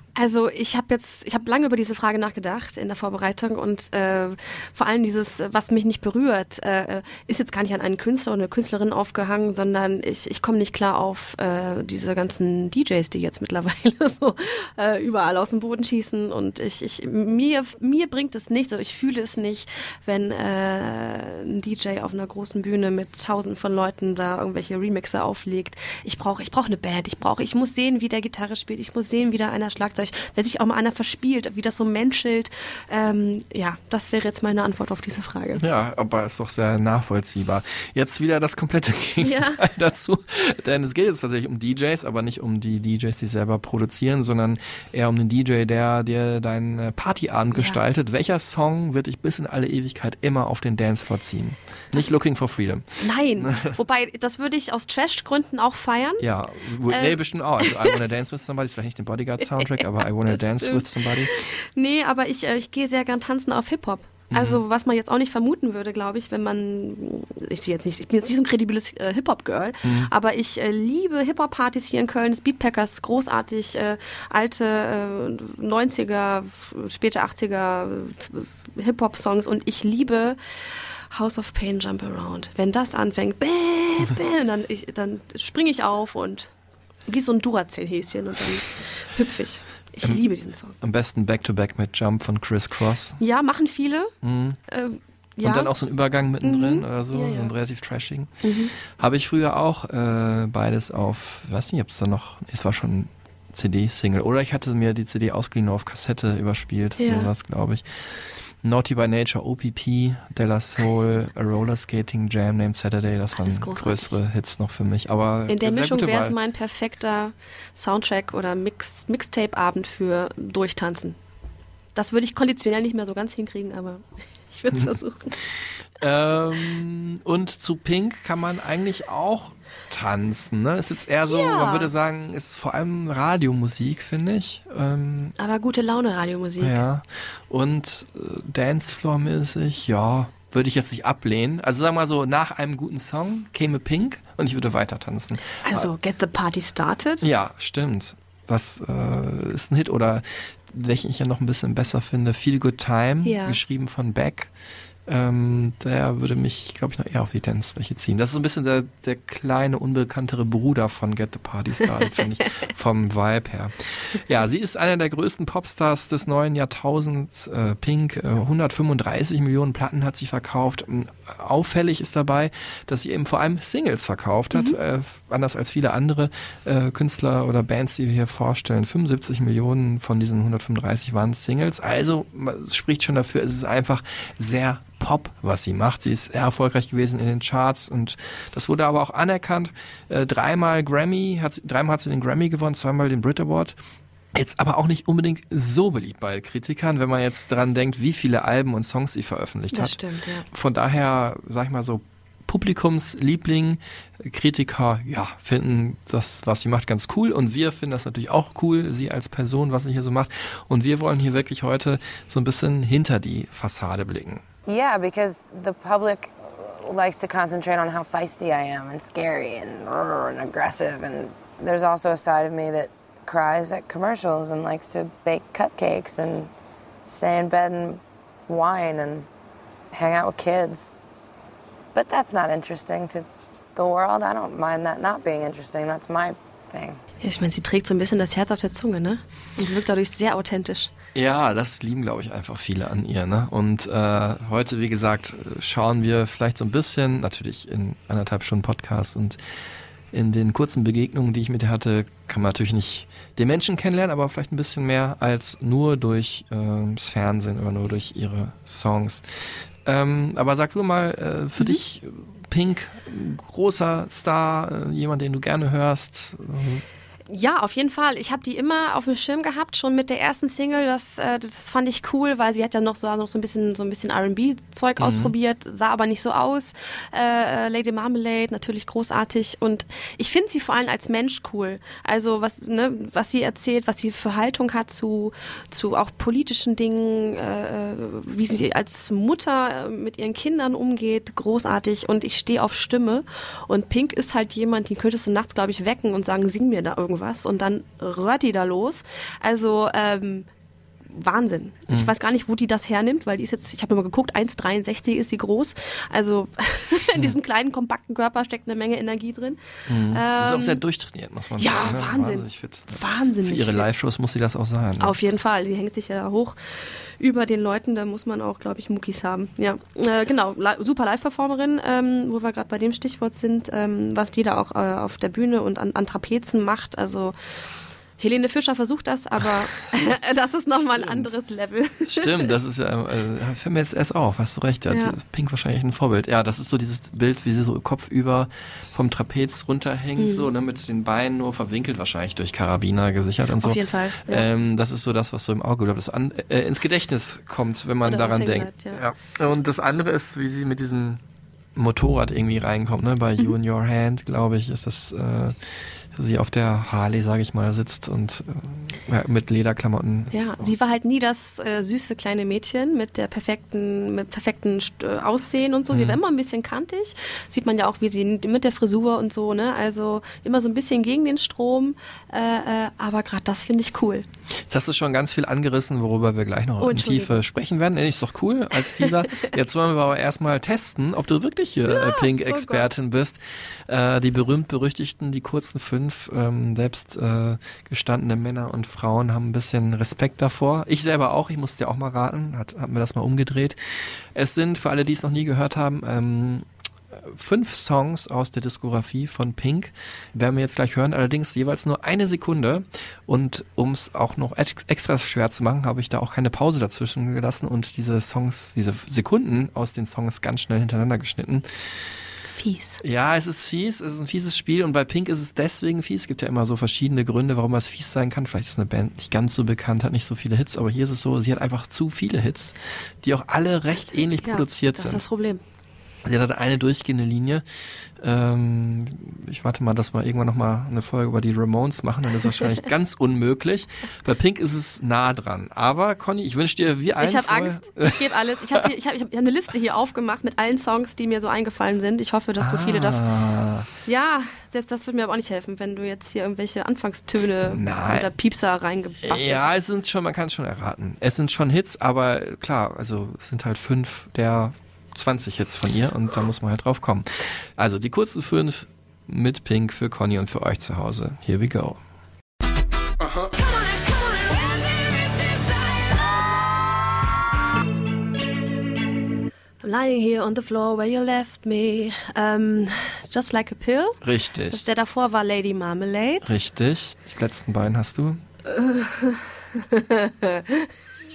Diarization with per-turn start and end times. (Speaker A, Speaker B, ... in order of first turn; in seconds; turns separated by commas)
Speaker A: 0.1-35.6, Speaker B: 35.5-53.7, Speaker A: 39.2-39.6, Speaker A: 47.5-47.8, Speaker A: 53.0-56.2, Speaker B: 56.2-61.3, Speaker A: 56.9-57.9, Speaker A: 60.6-80.4, Speaker B: 64.3-64.6, Speaker B: 69.8-70.1, Speaker A: 81.1-86.5, Speaker A: 87.1-90.7, Speaker B: 90.8-93.2, Speaker A: 93.2-94.1, Speaker B: 94.2-94.6, Speaker A: 94.7-95.7, Speaker B: 95.4-116.3, Speaker A: 96.4-97.5, Speaker A: 98.4-98.7, Speaker A: 107.0-107.3, Speaker A: 113.3-114.2, Speaker A: 115.5-121.2, Speaker A: 121.9-125.4, Speaker B: 126.0-135.3, Speaker A: 131.2-131.9, Speaker A: 135.4-136.8, Speaker B: 136.6-145.9, Speaker A: 145.6-147.3, Speaker B: 147.2-154.5, Speaker A: 153.2-153.6, Speaker B: 155.1-193.8, Speaker B: 194.3-214.4, Speaker A: 199.7-200.4, Speaker C: 214.7-226.5, Speaker C: 227.1-229.3, Speaker C: 229.9-231.0, Speaker C: 231.9-237.0, Speaker A: 237.2-240.9, Speaker B: 241.1-249.4, Speaker B: 250.1-266.8, Speaker A: 267.3-300.5, Speaker B: 275.0-275.3, Speaker A: 301.1-310.8, Speaker B: 301.9-302.1, Speaker B: 309.9-315.1, Speaker A: 311.6-313.9, Speaker A: 315.0-327.3, Speaker A: 328.2-332.4, Speaker B: 330.7-331.3, Speaker B: 332.1-351.2, Speaker A: 334.9-335.1, Speaker A: 340.2-340.5, Speaker A: 343.6-344.5, Speaker A: 348.0-349.0, Speaker B: 351.7-360.7, Speaker A: 360.3-374.2, Speaker B: 365.9-366.2, Speaker B: 374.7-412.1, Speaker A: 376.8-377.4, Speaker A: 378.9-379.5, Speaker A: 381.9-382.9, Speaker A: 412.5-413.0, Speaker B: 413.0-425.2, Speaker A: 424.4-425.6, Speaker B: 426.2-427.6, Speaker B: 428.2-438.9, Speaker A: 437.2-443.2, Speaker B: 442.6-443.9, Speaker A: 444.0-449.6, Speaker B: 447.6-448.3, Speaker B: 449.2-462.0, Speaker C: 463.5-466.7, Speaker A: 469.8-476.5, Speaker B: 474.2-474.8, Speaker B: 476.4-478.4, Speaker A: 478.7-480.9